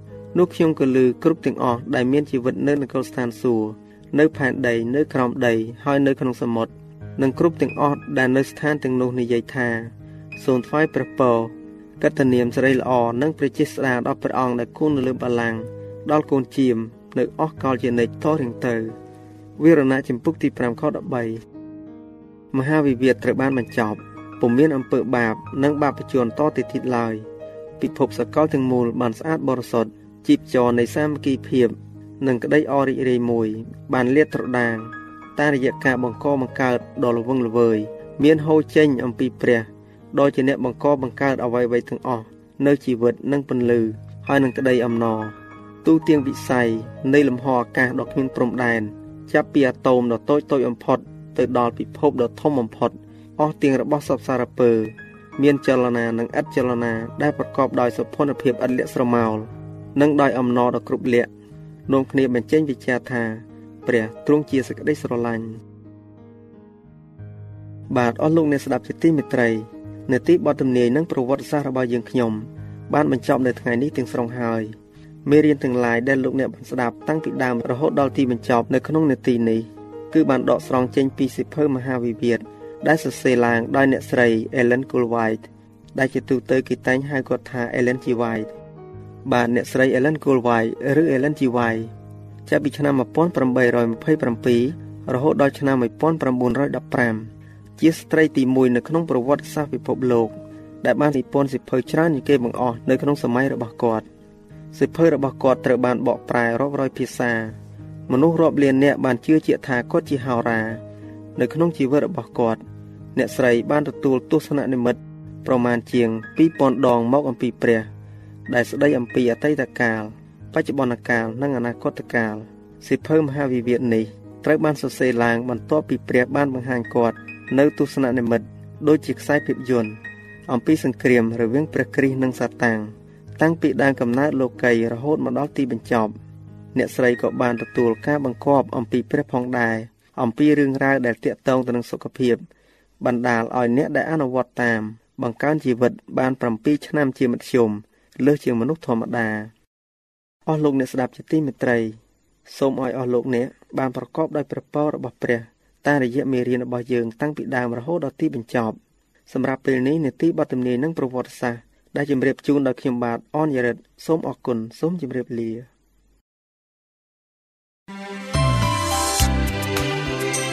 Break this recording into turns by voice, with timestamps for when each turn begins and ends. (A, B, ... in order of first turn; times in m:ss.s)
0:00.3-0:19.0 A
0:19.6-0:21.4 A
0:22.5-0:27.3 A
0:27.8-1:01.3 A
1:01.9-1:05.6 A
1:07.9-1:14.7 A
1:15.2-1:25.4 A
1:25.9-1:28.5 A
1:29.2-1:31.9 A
1:32.4-1:44.0 A
1:44.7-1:47.6 A
1:48.1-1:50.8 A
1:51.4-1:52.6 A
1:53.1-1:57.9 A
1:58.5-2:16.1 A
2:16.7-2:22.4 A
2:23.0-2:29.5 A
2:30.5-2:38.8 A
2:39.3-2:45.7 A